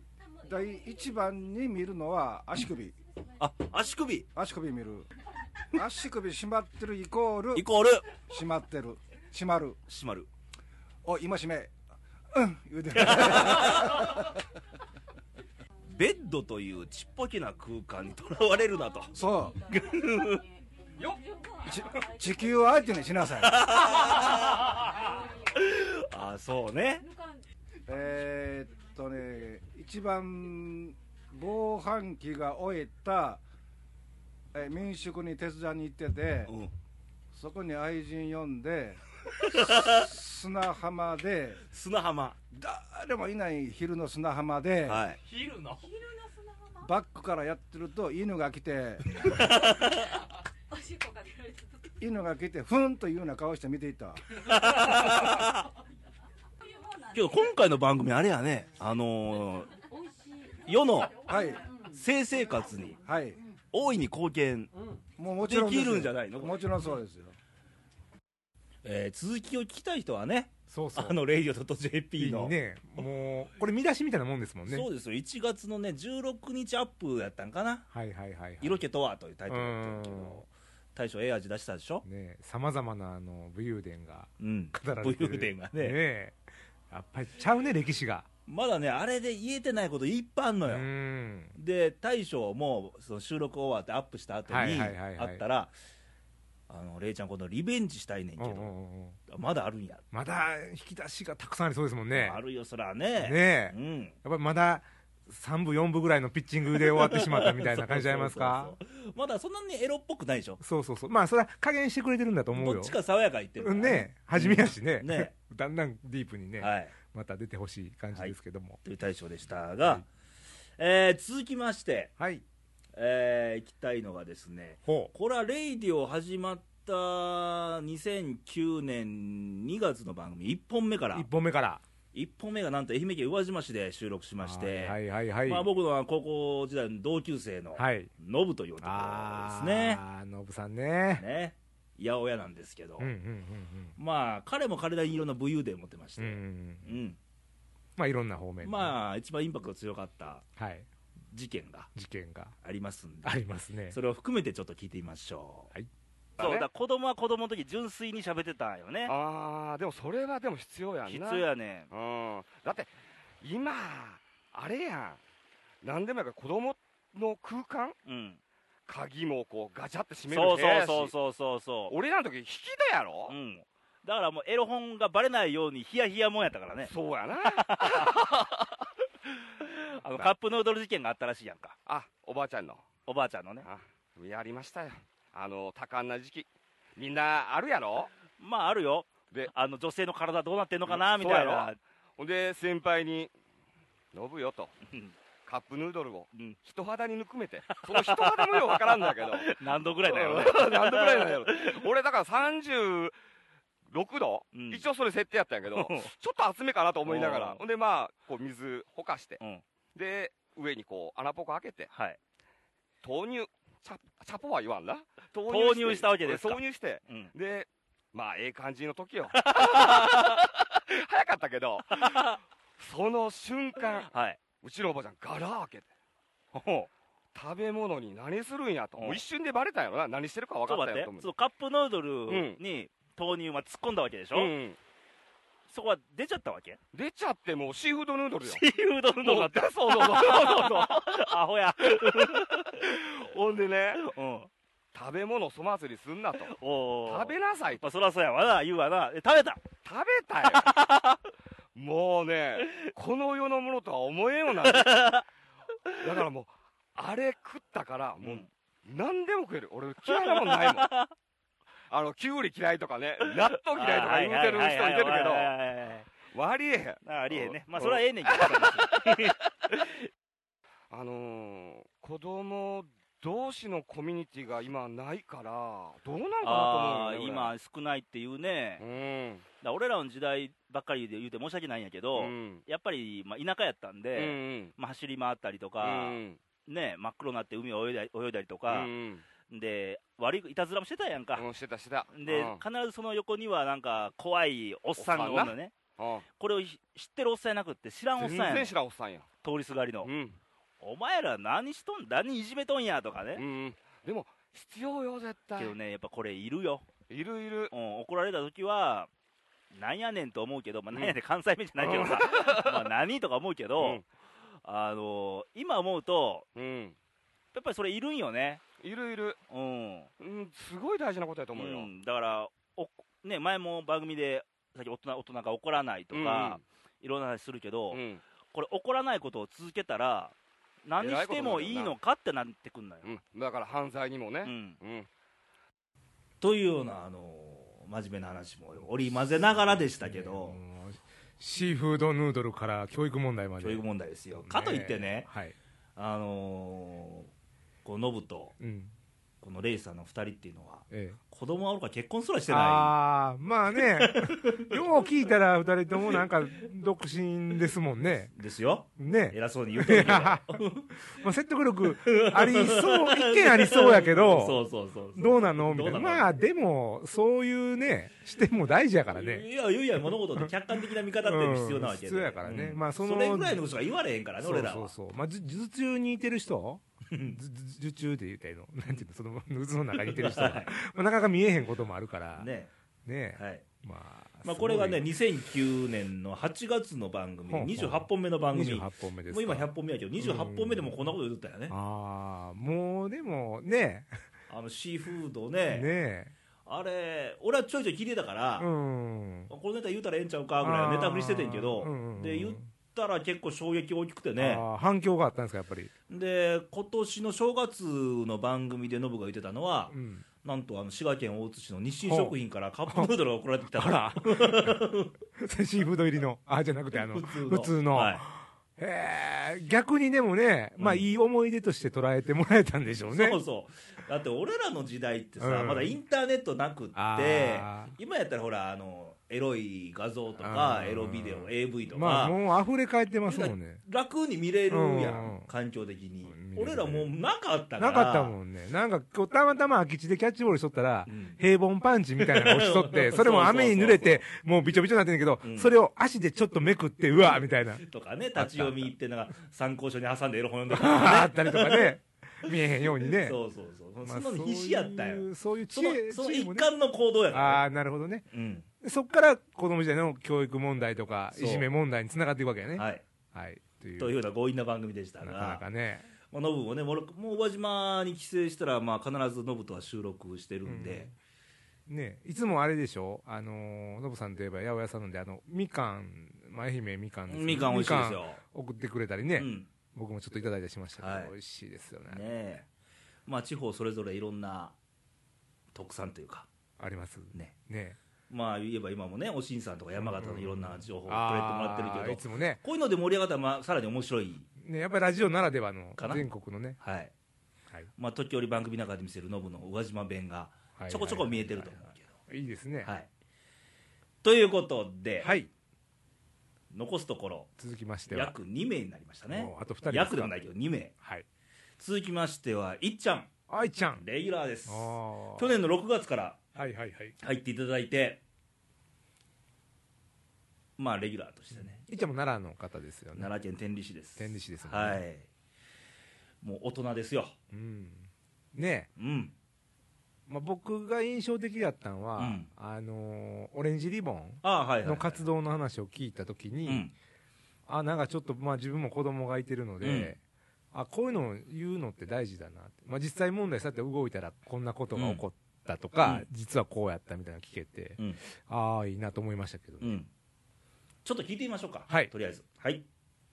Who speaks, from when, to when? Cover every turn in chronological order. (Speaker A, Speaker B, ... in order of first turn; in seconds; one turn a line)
Speaker A: 0.4-2.9
Speaker B: 3.4-4.3
Speaker A: 4.3-5.0
Speaker A: 5.7-7.6
Speaker B: 7.5-8.2
Speaker A: 8.2-9.8
Speaker B: 9.9-10.3
Speaker A: 11.0-11.7
Speaker A: 12.3-14.3
Speaker B: 13.0-14.0
Speaker B: 15.9-19.1
Speaker A: 19.1-19.6
Speaker B: 19.7-20.4
Speaker A: 21.6-23.7
Speaker B: 23.5-24.8
Speaker B: 25.6-27.0
Speaker A: 27.9-33.4
Speaker A: 34.5-36.5
Speaker B: 36.5-36.7
Speaker A: 37.3-39.0
Speaker B: 39.5-40.1
Speaker A: 39.9-41.6
Speaker B: 41.7-42.4
Speaker A: 42.5-45.0
Speaker B: 44.9-45.2
Speaker A: 46.8-49.0
Speaker B: 49.2-50.1
Speaker A: 52.0-54.2
Speaker B: 54.4-55.6
Speaker B: 57.1-59.7
Speaker B: 60.6-61.3
Speaker A: 61.2-61.6
Speaker B: 61.8-63.0
Speaker A: 63.0-63.4
Speaker B: 63.7-64.7
Speaker A: 65.2-67.3
Speaker B: 65.4-66.6
Speaker B: 68.8-72.5
Speaker C: 70.7-71.2
Speaker C: 72.2-74.9
Speaker B: 74.7-77.9
Speaker C: 77.9-78.8
Speaker B: 78.6-82.0
Speaker C: 79.5-80.4
Speaker C: 82.0-86.4
Speaker B: 84.4-86.0
Speaker C: 86.9-88.3
Speaker B: 88.5-90.9
Speaker C: 90.7-91.5
Speaker B: 91.5-95.7
Speaker C: 94.5-95.4
Speaker B: 96.7-98.7
Speaker C: 98.4-99.2
Speaker B: 99.3-100.0
Speaker C: 100.1-102.4
Speaker B: 102.1-104.2
Speaker C: 103.2-108.8
Speaker B: 106.7-110.6
Speaker C: 110.6-113.0
Speaker B: 112.5-115.3
Speaker C: 113.6-118.8
Speaker B: 116.6-116.9
Speaker B: 118.1-120.0
Speaker B: 120.8-122.1
Speaker C: 122.2-122.4
Speaker B: 122.9-131.3
Speaker C: 124.9-125.1
Speaker C: 131.1-131.8
Speaker B: 132.1-140.0
Speaker C: 134.4-135.7
Speaker C: 137.8-138.1
Speaker C: 138.8-141.2
Speaker B: 141.2-143.1
Speaker C: 143.0-143.9
Speaker B: 144.0-147.2
Speaker C: 146.2-146.9
Speaker C: 148.0-148.9
Speaker B: 148.6-150.4
Speaker C: 150.6-150.9
Speaker B: 151.3-151.9
Speaker C: 151.9-152.5
Speaker B: 152.6-155.7
Speaker C: 153.2-154.0
Speaker B: 156.4-159.1
Speaker D: 156.4-156.7
Speaker D: 159.1-165.2
Speaker B: 161.1-161.9
Speaker D: 165.8-167.9
Speaker B: 168.1-168.4
Speaker D: 168.8-171.1
Speaker B: 170.3-171.9
Speaker D: 171.9-173.3
Speaker B: 173.3-176.9
Speaker D: 176.8-178.7
Speaker B: 177.4-178.4
Speaker B: 179.6-181.8
Speaker D: 181.8-182.8
Speaker B: 183.1-183.7
Speaker D: 183.6-188.1
Speaker B: 188.4-191.8
Speaker D: 190.8-193.3
Speaker D: 194.1-194.7
Speaker D: 195.4-203.1
Speaker B: 196.3-196.6
Speaker B: 197.8-201.9
Speaker D: 203.9-209.4
Speaker B: 204.5-204.8
Speaker B: 205.7-206.1
Speaker B: 207.1-207.6
Speaker D: 209.9-211.9
Speaker B: 211.9-212.2
Speaker D: 213.0-225.9
Speaker B: 215.5-217.3
Speaker B: 219.3-220.4
Speaker B: 221.9-222.3
Speaker B: 223.9-224.4
Speaker B: 226.5-226.9
Speaker D: 227.3-231.3
Speaker B: 228.9-229.2
Speaker B: 230.7-234.5
Speaker D: 232.3-232.6
Speaker D: 234.3-234.8
Speaker B: 235.7-236.8
Speaker D: 236.9-238.6
Speaker B: 238.4-242.8
Speaker D: 239.2-241.2
Speaker D: 241.9-244.0
Speaker B: 243.9-244.5
Speaker D: 244.9-246.5
Speaker B: 246.4-249.7
Speaker D: 247.1-247.8
Speaker D: 249.8-250.7
Speaker B: 250.5-251.2
Speaker D: 251.7-255.2
Speaker B: 254.6-255.2
Speaker D: 256.0-260.9
Speaker B: 258.2-258.5
Speaker B: 260.1-261.1
Speaker D: 261.9-265.5
Speaker B: 263.2-266.1
Speaker D: 266.3-269.3
Speaker B: 267.0-269.9
Speaker D: 270.9-277.5
Speaker B: 276.4-278.8
Speaker D: 278.8-279.4
Speaker B: 279.6-288.9
Speaker D: 282.1-282.6
Speaker D: 284.1-284.7
Speaker D: 285.8-286.4
Speaker D: 288.7-289.2
Speaker B: 289.5-291.4
Speaker D: 291.4-292.6
Speaker B: 292.1-295.8
Speaker D: 295.0-296.2
Speaker B: 296.4-298.7
Speaker D: 298.2-299.3
Speaker B: 299.4-300.1
Speaker D: 300.0-300.4
Speaker B: 300.8-303.4
Speaker D: 303.4-305.8
Speaker B: 305.6-306.9
Speaker D: 307.1-307.7
Speaker B: 307.7-309.1
Speaker B: 309.7-314.0
Speaker D: 311.8-312.9
Speaker D: 313.8-314.0
Speaker B: 314.6-316.5
Speaker D: 316.5-316.9
Speaker B: 317.5-318.6
Speaker D: 318.8-319.4
Speaker B: 319.5-320.1
Speaker D: 320.2-321.9
Speaker B: 321.5-328.0
Speaker D: 326.1-326.6
Speaker D: 327.9-328.2
Speaker B: 328.5-330.3
Speaker B: 330.9-333.1
Speaker D: 331.0-331.9
Speaker D: 333.0-335.1
Speaker B: 334.4-334.8
Speaker B: 336.4-340.6
Speaker C: 340.0-343.8
Speaker B: 343.6-345.3
Speaker C: 344.3-345.5
Speaker B: 346.0-347.3
Speaker B: 347.8-348.5
Speaker C: 348.6-348.9
Speaker B: 349.4-353.0
Speaker C: 350.9-351.2
Speaker C: 352.5-358.3
Speaker B: 353.8-354.8
Speaker B: 358.3-360.9
Speaker C: 359.0-364.6
Speaker B: 362.0-366.3
Speaker C: 365.1-369.4
Speaker B: 369.1-374.9
Speaker C: 371.2-373.6
Speaker C: 374.4-382.5
Speaker B: 377.1-377.4
Speaker B: 380.0-380.7
Speaker B: 382.4-382.7
Speaker C: 383.1-385.0
Speaker B: 383.4-383.6
Speaker B: 384.4-391.7
Speaker C: 387.5-391.0
Speaker C: 391.7-394.2
Speaker B: 394.5-395.9
Speaker C: 395.7-396.3
Speaker B: 396.6-398.7
Speaker C: 398.6-399.5
Speaker B: 399.5-404.6
Speaker C: 400.6-402.7
Speaker C: 404.4-405.9
Speaker B: 406.1-415.1
Speaker C: 409.9-410.2
Speaker C: 412.0-412.3
Speaker C: 413.8-414.8
Speaker C: 415.4-423.4
Speaker B: 416.9-418.2
Speaker B: 420.8-421.0
Speaker B: 423.1-432.4
Speaker C: 425.4-426.0
Speaker C: 426.9-427.9
Speaker C: 430.4-433.8
Speaker B: 433.3-438.4
Speaker C: 434.7-435.5
Speaker C: 436.3-437.1
Speaker C: 437.8-447.8
Speaker B: 441.1-441.4
Speaker B: 442.2-444.2
Speaker B: 445.4-445.7
Speaker B: 447.2-451.9
Speaker C: 448.4-448.9
Speaker C: 450.7-453.4
Speaker B: 452.5-457.6
Speaker C: 454.0-456.7
Speaker C: 457.3-458.2
Speaker B: 458.3-458.6
Speaker C: 458.8-464.1
Speaker B: 461.3-461.7
Speaker B: 462.8-463.0
Speaker B: 464.0-465.6
Speaker C: 465.2-466.1
Speaker B: 466.3-471.1
Speaker C: 470.6-471.1
Speaker C: 471.9-482.2
Speaker B: 477.3-478.4
Speaker B: 479.4-479.7
Speaker B: 481.0-481.3
Speaker B: 482.1-482.6
Speaker B: 483.3-484.7
Speaker B: 485.7-486.5
Speaker C: 486.8-488.0
Speaker B: 488.3-494.5
Speaker C: 489.9-492.6
Speaker C: 494.6-496.8
Speaker B: 496.0-496.3
Speaker B: 496.8-497.1
Speaker B: 498.0-502.1
Speaker C: 500.8-502.9
Speaker B: 504.2-505.3
Speaker C: 505.2-505.5
Speaker B: 506.7-507.5
Speaker C: 507.6-508.3
Speaker B: 508.1-510.9
Speaker C: 509.3-510.3
Speaker C: 511.0-511.2
Speaker B: 511.8-513.3
Speaker C: 513.5-514.0
Speaker B: 514.0-516.4
Speaker C: 514.6-515.5
Speaker C: 516.5-517.1
Speaker B: 517.2-518.2
Speaker B: 520.8-521.8
Speaker C: 521.5-523.3
Speaker B: 523.1-525.2
Speaker C: 524.2-525.0
Speaker B: 526.4-527.4
Speaker C: 527.5-528.9
Speaker B: 529.0-529.3
Speaker C: 530.3-536.9
Speaker B: 532.2-532.5
Speaker B: 534.4-535.2
Speaker B: 536.7-536.9
Speaker C: 537.7-540.2
Speaker B: 539.8-540.1
Speaker C: 540.7-550.0
Speaker B: 544.9-545.2
Speaker B: 549.8-550.1
Speaker B: 551.0-552.8